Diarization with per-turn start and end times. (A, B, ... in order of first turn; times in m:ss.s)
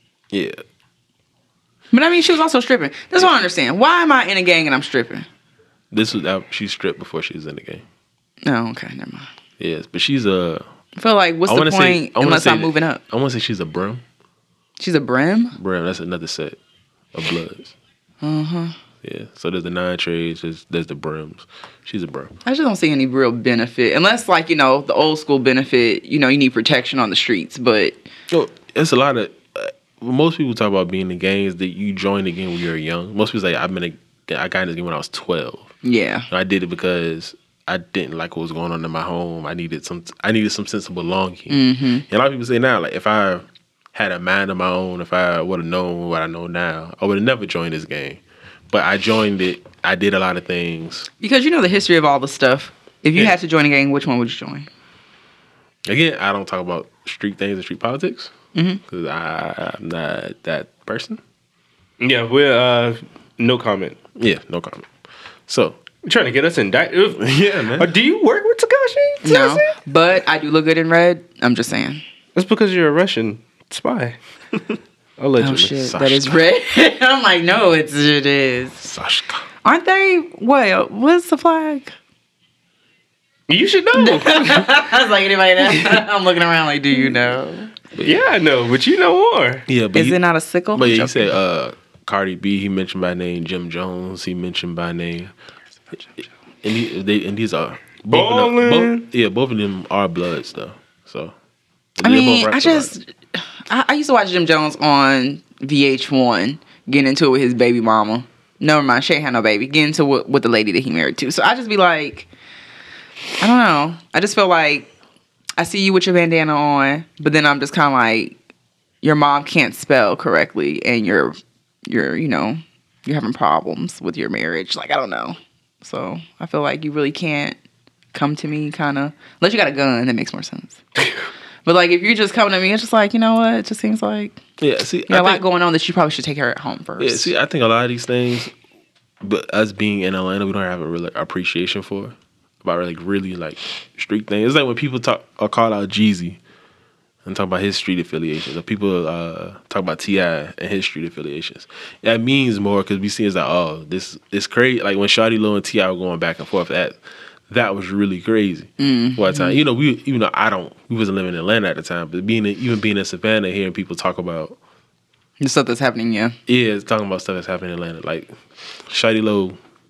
0:00.3-0:00.6 A
0:01.9-0:05.3 B
0:05.9-0:07.8 A
0:08.4-0:09.3 B
0:09.6-0:10.6 A
0:11.0-0:13.0 B
0:11.5-0:14.0 A
0:14.8-0:15.6 B
0:15.6-0:16.6 A
0:17.1-0:17.7 A
0:18.2-0:18.8 B
0:19.0-0:22.3 A
0:22.4-0:28.0 B
0:28.3-0:35.7 A
0:35.8-0:36.3 B
0:36.3-0:51.1 A
0:41.5-0:42.0 B
0:51.2-0:54.7 B
0:55.9-0:58.3 A
0:58.5-0:58.8 B
0:58.9-1:01.2 A
1:02.0-1:04.0 C
1:04.2-1:04.9 A
1:05.5-1:05.8 A
1:06.0-1:09.7 C
1:07.2-1:07.9 A
1:09.2-1:12.0 B
1:12.4-1:14.2 C
1:15.2-1:15.8 C
1:15.4-1:18.8 B
1:15.8-1:16.4 A
1:18.8-1:19.4 A
1:19.6-1:21.9 B
1:23.5-1:24.8 C
1:24.0-1:27.7 B
1:28.0-1:29.7 C
1:29.7-1:30.2 A
1:29.9-1:31.3 B
1:30.7-1:35.3 A
1:36.2-1:41.3 A
1:38.1-1:39.0 C
1:42.0-1:42.9 A
1:42.0-1:52.3 B
1:53.4-1:54.9 B
1:55.6-1:58.4 B
1:59.0-2:07.6 B
2:08.1-2:10.8 B
2:11.6-2:14.4 B
2:14.6-2:15.4 A
2:15.1-2:17.3 B
2:17.0-2:18.5 A
2:19.2-2:26.4 A
2:27.2-2:44.6 A
2:38.8-2:39.6 B
2:45.4-2:46.4 B
2:46.5-2:48.3 A
2:48.9-2:49.6 A